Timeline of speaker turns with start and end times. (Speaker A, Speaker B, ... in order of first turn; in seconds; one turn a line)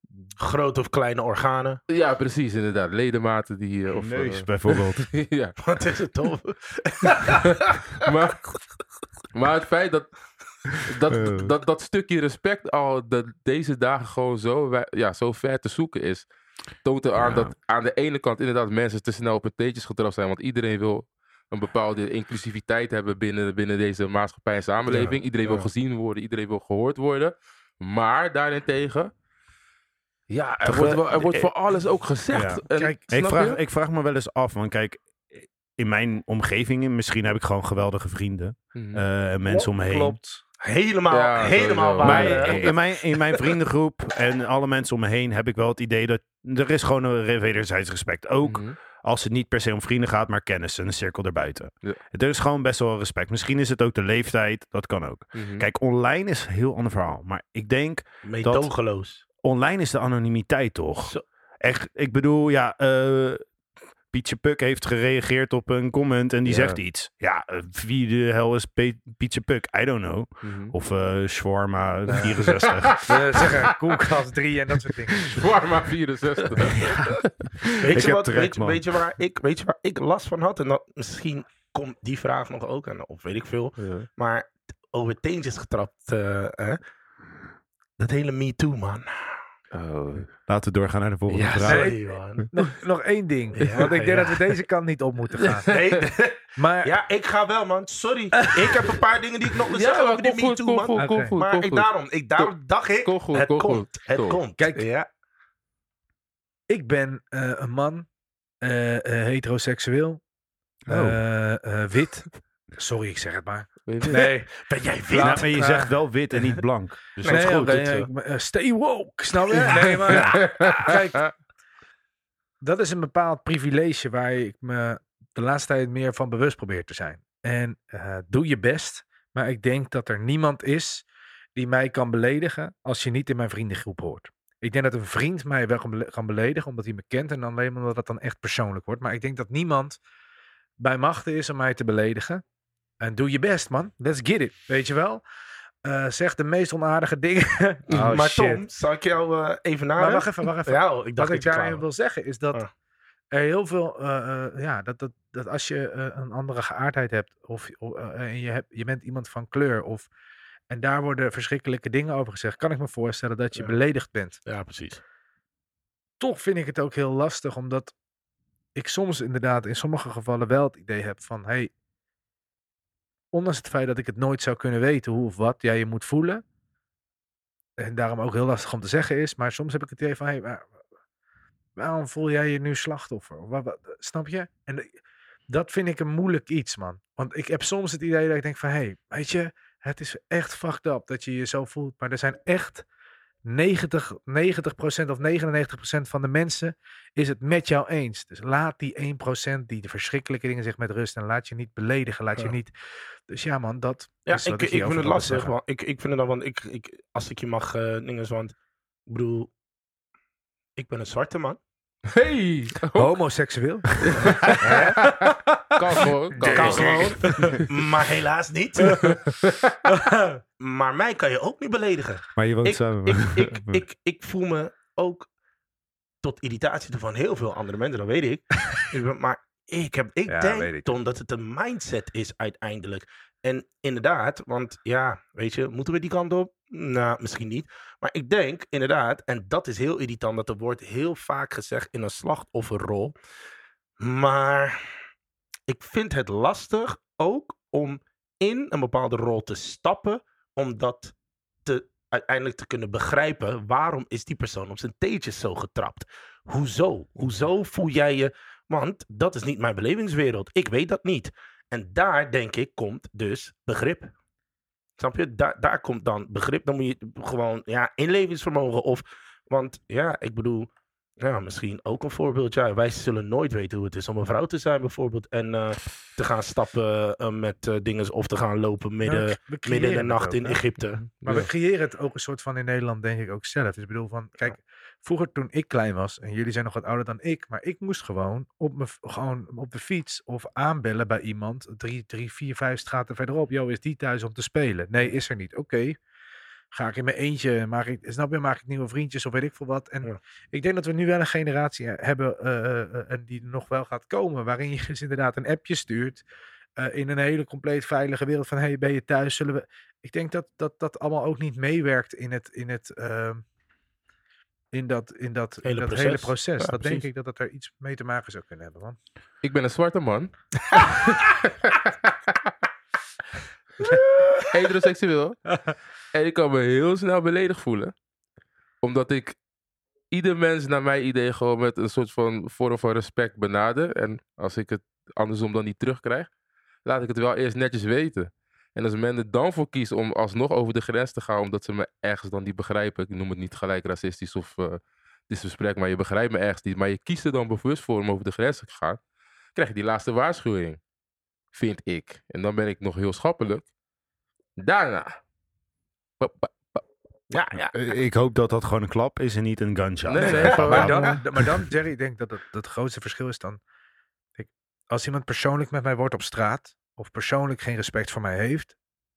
Speaker A: 0.4-1.8
Speaker B: 1.9-5.6
Speaker C: 3.9-5.1
Speaker A: 5.6-7.8
Speaker B: 8.0-8.5
Speaker B: 9.3-10.1
Speaker B: 10.8-16.2
Speaker C: 11.1-11.5
Speaker B: 16.8-29.1
Speaker C: 17.1-17.5
Speaker C: 24.9-25.7
Speaker B: 30.3-33.6
Speaker C: 30.6-31.5
Speaker C: 32.3-40.2
Speaker B: 38.7-39.0
Speaker D: 39.5-40.4
Speaker A: 40.6-42.8
Speaker B: 41.1-42.7
Speaker C: 42.0-58.7
Speaker B: 48.4-48.8
Speaker B: 55.3-55.7
Speaker A: 58.2-59.2
Speaker C: 59.4-63.4
Speaker C: 64.1-73.0
Speaker B: 66.5-66.8
Speaker B: 70.4-70.7
Speaker B: 72.4-73.1
Speaker D: 73.0-75.5
Speaker B: 75.2-76.9
Speaker C: 76.7-78.8
Speaker A: 77.8-86.8
Speaker B: 83.8-84.1
Speaker A: 88.0-89.4
Speaker B: 89.7-90.3
Speaker C: 90.5-91.9
Speaker B: 91.3-91.8
Speaker A: 91.6-92.5
Speaker D: 91.7-92.0
Speaker D: 92.5-95.7
Speaker A: 93.6-94.4
Speaker B: 95.4-96.0
Speaker A: 95.7-105.1
Speaker D: 96.6-96.9
Speaker D: 98.4-99.0
Speaker B: 99.7-102.5
Speaker D: 100.9-101.3
Speaker B: 103.0-104.4
Speaker D: 104.6-104.8
Speaker D: 106.7-108.1
Speaker D: 108.6-110.2
Speaker C: 110.8-111.2
Speaker D: 110.9-116.5
Speaker B: 113.9-114.2
Speaker A: 114.1-115.5
Speaker C: 115.1-117.8
Speaker A: 117.2-118.1
Speaker D: 117.2-121.3
Speaker A: 119.5-120.2
Speaker D: 122.6-140.0
Speaker D: 140.8-142.4
Speaker D: 143.0-145.2
Speaker D: 145.8-148.6
Speaker A: 147.9-151.8
Speaker D: 150.0-152.6
Speaker D: 153.3-160.1
Speaker D: 160.7-164.4
Speaker A: 164.4-165.0
Speaker D: 166.2-167.9
Speaker D: 168.8-171.7
Speaker D: 173.3-176.4
Speaker D: 177.8-180.7
Speaker D: 181.8-184.9
Speaker D: 185.5-192.8
Speaker D: 193.4-202.7
Speaker D: 203.3-205.5
Speaker A: 204.2-208.5
Speaker A: 209.1-209.5
Speaker A: 210.8-211.6
Speaker B: 212.1-213.1
Speaker D: 213.0-217.6
Speaker B: 214.1-217.3
Speaker A: 214.6-214.9
Speaker C: 216.4-217.1
Speaker A: 216.5-219.1
Speaker D: 218.9-219.2
Speaker B: 219.4-219.7
Speaker D: 219.8-220.4
Speaker A: 220.6-225.3
Speaker C: 222.4-223.8
Speaker A: 226.2-243.1
Speaker D: 230.3-230.9
Speaker A: 244.0-244.8
Speaker A: 245.7-251.1
Speaker A: 251.6-264.1
Speaker A: 265.0-270.7
Speaker A: 271.2-281.5
Speaker D: 279.0-280.6
Speaker B: 281.2-281.5
Speaker D: 281.2-296.0
Speaker D: 296.7-306.2
Speaker D: 306.8-313.4
Speaker D: 314.7-318.9
Speaker A: 315.6-317.1
Speaker B: 319.4-321.8
Speaker B: 324.5-325.4
Speaker B: 326.1-327.9
Speaker B: 328.8-329.4
Speaker B: 330.1-336.3
Speaker B: 336.8-349.0
Speaker B: 349.5-350.8
Speaker B: 351.5-353.7
Speaker B: 354.6-355.1
Speaker B: 356.2-356.8
Speaker A: 357.3-357.7
Speaker C: 357.7-361.6
Speaker B: 360.0-361.2
Speaker A: 360.2-360.9
Speaker D: 360.6-363.6
Speaker D: 364.4-368.8